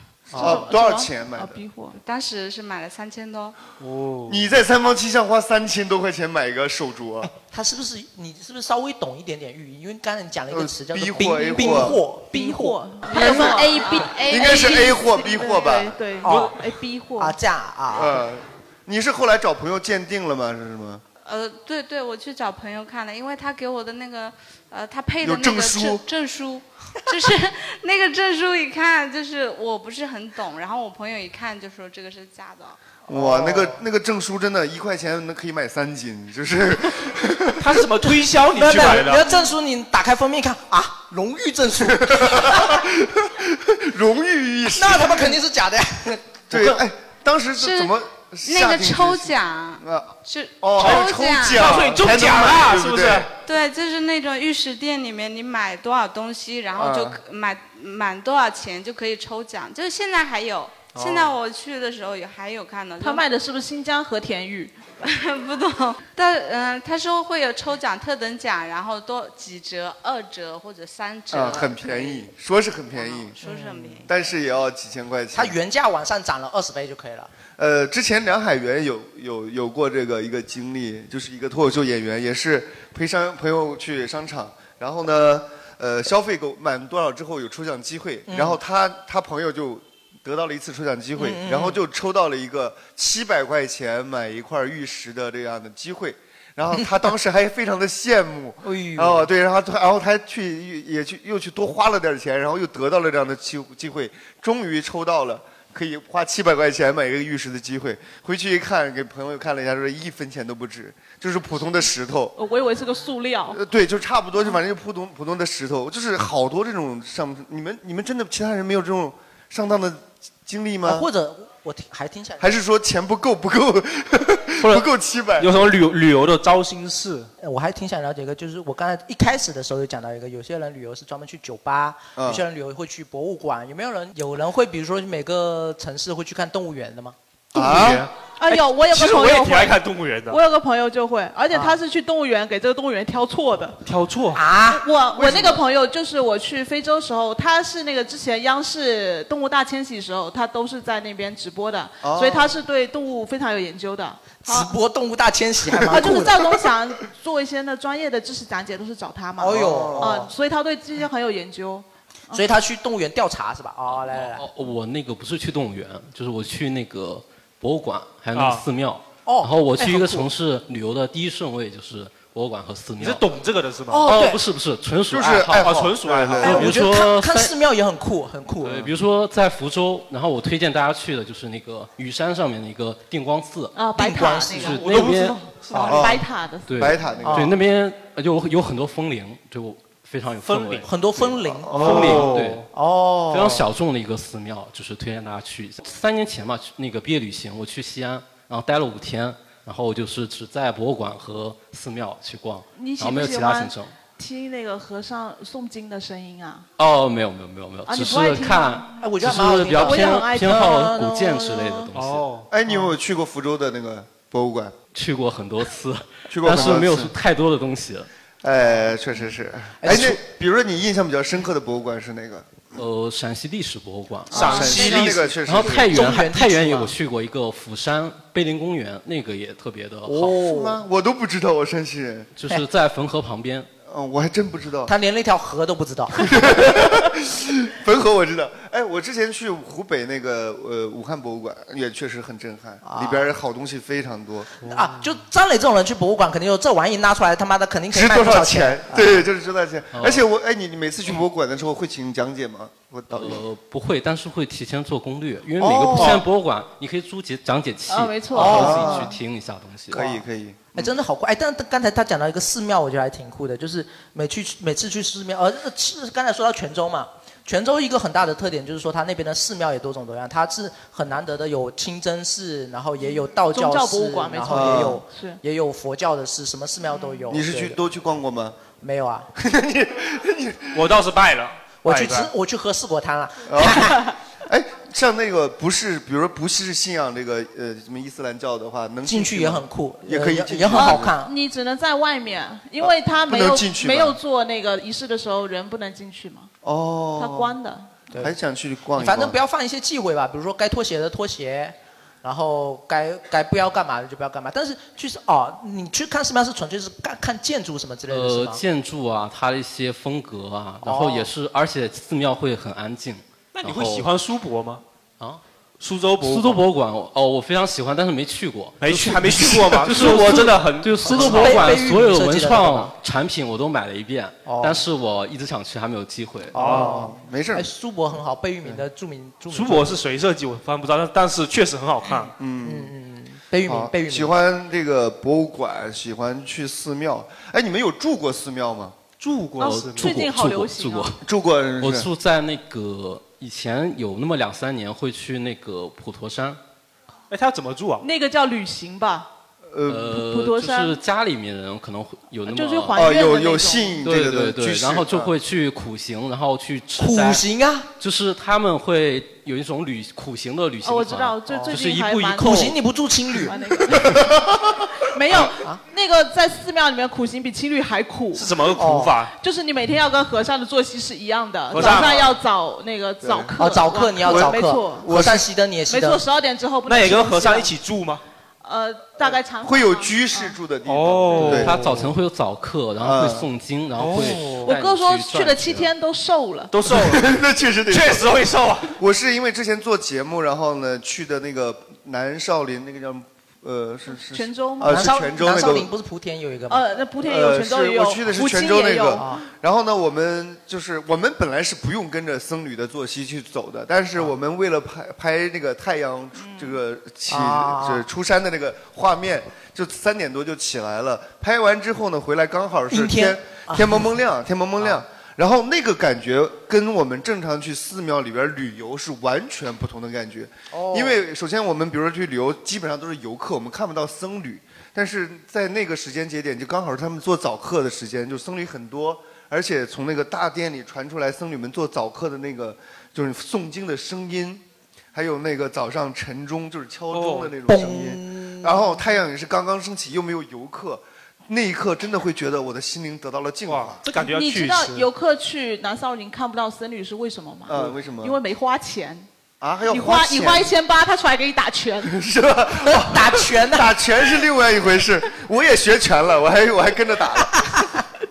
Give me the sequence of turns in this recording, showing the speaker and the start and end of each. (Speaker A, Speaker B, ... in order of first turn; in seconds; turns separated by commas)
Speaker A: 0.3-0.6, Speaker B: 0.3-1.6, Speaker C: 0.3-2.0, Speaker D: 1.9-3.5, Speaker E: 3.8-4.4, Speaker B: 4.3-7.3, Speaker A: 7.5-14.0, Speaker B: 10.5-12.0, Speaker C: 12.3-17.4, Speaker D: 13.1-15.0, Speaker B: 14.2-16.0, Speaker A: 16.2-16.5, Speaker E: 16.2-16.5, Speaker A: 17.2-18.2, Speaker B: 17.9-21.0, Speaker D: 21.2-32.8, Speaker B: 25.2-26.0, Speaker A: 33.1-33.8, Speaker B: 33.1-37.7, Speaker E: 37.6-39.2, Speaker A: 38.5-42.8, Speaker B: 42.0-45.4, Speaker A: 44.8-46.8, Speaker B: 46.5-53.3, Speaker D: 47.6-51.8, Speaker E: 50.8-53.3, Speaker D: 53.4-63.2, Speaker B: 56.8-57.1, Speaker C: 63.0-64.8, Speaker D: 65.0-72.3, Speaker B: 71.3-73.4, Speaker D: 72.9-74.2, Speaker A: 73.4-74.0, Speaker B: 74.1-75.5, Speaker A: 75.3-77.3, Speaker B: 77.6-112.3, Speaker A: 88.3-88.6, Speaker A: 91.2-91.8, Speaker A: 98.6-99.3, Speaker C: 112.3-113.6, Speaker B: 113.5-121.1, Speaker A: 120.8-122.5, Speaker B: 122.4-125.7, Speaker E: 124.6-124.9, Speaker E: 125.4-127.3, Speaker A: 127.4-137.2, Speaker B: 132.2-132.4, Speaker B: 137.5-138.1, Speaker E: 137.5-140.4, Speaker C: 138.4-139.8, Speaker C: 140.3-143.8, Speaker A: 141.5-141.8, Speaker E: 143.8-144.4, Speaker A: 144.3-144.8, Speaker C: 144.7-154.7, Speaker B: 145.1-145.6, Speaker B: 152.0-152.6, Speaker A: 154.4-156.4, Speaker C: 155.8-162.4, Speaker A: 159.4-160.3, Speaker B: 159.5-160.2, Speaker A: 162.3-164.5, Speaker F: 164.1-173.3, Speaker E: 168.3-168.7, Speaker A: 169.2-170.3, Speaker E: 173.0-174.3, Speaker A: 173.9-174.4, Speaker F: 174.0-175.8, Speaker B: 175.1-176.7, Speaker E: 175.5-176.8, Speaker A: 176.4-178.9, Speaker F: 176.4-177.5, Speaker F: 178.6-183.7, Speaker C: 183.7-184.9, Speaker A: 184.0-184.8, Speaker F: 184.6-185.4, Speaker E: 184.7-186.0, Speaker C: 185.8-187.2, Speaker B: 185.8-186.2, Speaker F: 186.7-192.7, Speaker B: 186.8-187.5, Speaker A: 187.2-187.5, Speaker E: 190.4-190.9, Speaker A: 190.8-193.6, Speaker B: 191.6-192.3, Speaker E: 191.8-192.7, Speaker F: 193.3-203.9, Speaker C: 202.8-206.7, Speaker F: 206.8-212.3, Speaker C: 207.9-208.9, Speaker A: 209.0-211.1, Speaker C: 209.7-211.9, Speaker E: 211.9-212.5, Speaker B: 212.5-214.8, Speaker F: 214.9-218.1, Speaker B: 216.3-217.1, Speaker B: 218.4-222.7, Speaker A: 219.8-220.2, Speaker F: 222.7-224.6, Speaker E: 224.3-225.3, Speaker B: 224.3-226.0, Speaker A: 224.3-226.9, Speaker F: 225.4-230.3, Speaker A: 230.1-230.8, Speaker B: 230.3-232.3, Speaker F: 232.3-233.7, Speaker B: 233.9-234.9, Speaker A: 234.9-236.5, Speaker B: 236.2-244.5, Speaker A: 242.8-243.3, Speaker A: 244.6-249.2, Speaker B: 247.9-253.4, Speaker F: 249.9-250.2, Speaker F: 253.1-260.1, Speaker B: 255.6-256.2, Speaker A: 255.8-256.1, Speaker C: 257.9-259.0, Speaker A: 258.3-259.1, Speaker B: 258.4-259.2, Speaker B: 259.9-260.9, Speaker A: 260.7-277.8, Speaker C: 273.4-275.4, Speaker B: 274.5-275.0, Speaker B: 277.3-278.6, Speaker A: 278.8-279.3, Speaker B: 279.4-280.8, Speaker E: 280.7-282.3, Speaker A: 281.8-284.1, Speaker B: 283.4-291.1, Speaker A: 289.0-291.3, Speaker C: 290.7-296.5, Speaker B: 292.8-294.2, Speaker B: 296.6-297.5, Speaker C: 297.2-298.2, Speaker B: 298.2-299.4, Speaker A: 299.0-308.6, Speaker F: 308.1-314.1, Speaker A: 310.8-311.3, Speaker E: 313.6-314.8, Speaker E: 315.8-316.6, Speaker F: 316.2-326.6, Speaker E: 318.8-321.8, Speaker A: 321.0-322.9, Speaker A: 324.4-324.8, Speaker A: 326.5-329.9, Speaker E: 326.6-326.9, Speaker B: 326.6-327.7, Speaker E: 329.5-332.3, Speaker B: 332.4-332.9, Speaker A: 332.6-334.3, Speaker B: 333.6-338.9, Speaker E: 339.2-340.2, Speaker C: 339.6-341.1, Speaker F: 339.6-341.2, Speaker B: 341.2-342.1, Speaker F: 341.8-346.6, Speaker E: 347.3-348.1, Speaker C: 348.0-349.3, Speaker B: 349.7-350.2, Speaker F: 349.9-353.1, Speaker C: 350.1-351.0, Speaker C: 352.5-354.0, Speaker B: 352.9-355.3, Speaker F: 354.0-357.4, Speaker A: 357.0-357.9, Speaker F: 358.0-362.7, Speaker C: 360.8-362.7, Speaker A: 361.5-361.8, Speaker A: 362.4-363.5, Speaker C: 363.4-364.4, Speaker C: 365.0-368.5, Speaker A: 365.5-365.8, Speaker E: 368.3-369.3, Speaker A: 368.8-369.1, Speaker C: 369.4-375.1, Speaker E: 371.7-372.4, Speaker B: 373.2-373.5, Speaker A: 373.6-376.2, Speaker B: 374.2-375.5, Speaker C: 375.9-377.7, Speaker E: 376.9-378.2, Speaker C: 378.6-380.6, Speaker B: 379.2-381.8, Speaker E: 380.9-382.1, Speaker F: 381.6-385.9, Speaker B: 383.0-383.5, Speaker E: 384.0-384.7, Speaker C: 384.6-386.7, Speaker E: 386.7-387.3, Speaker B: 386.9-388.3, Speaker E: 387.9-389.0, Speaker B: 388.9-395.9, Speaker C: 394.3-395.0, Speaker A: 394.8-396.8, Speaker C: 396.7-399.4, Speaker B: 397.2-434.6, Speaker A: 399.1-399.4, Speaker C: 406.4-406.8, Speaker A: 407.3-408.0, Speaker A: 412.9-414.1, Speaker A: 420.7-421.2, Speaker B: 435.1-444.0, Speaker E: 437.1-437.5, Speaker A: 437.7-438.9, Speaker E: 443.7-445.1, Speaker C: 444.2-449.3, Speaker B: 447.7-448.4, Speaker B: 449.6-450.7, Speaker C: 449.9-452.1, Speaker B: 452.0-458.0, Speaker A: 452.8-453.9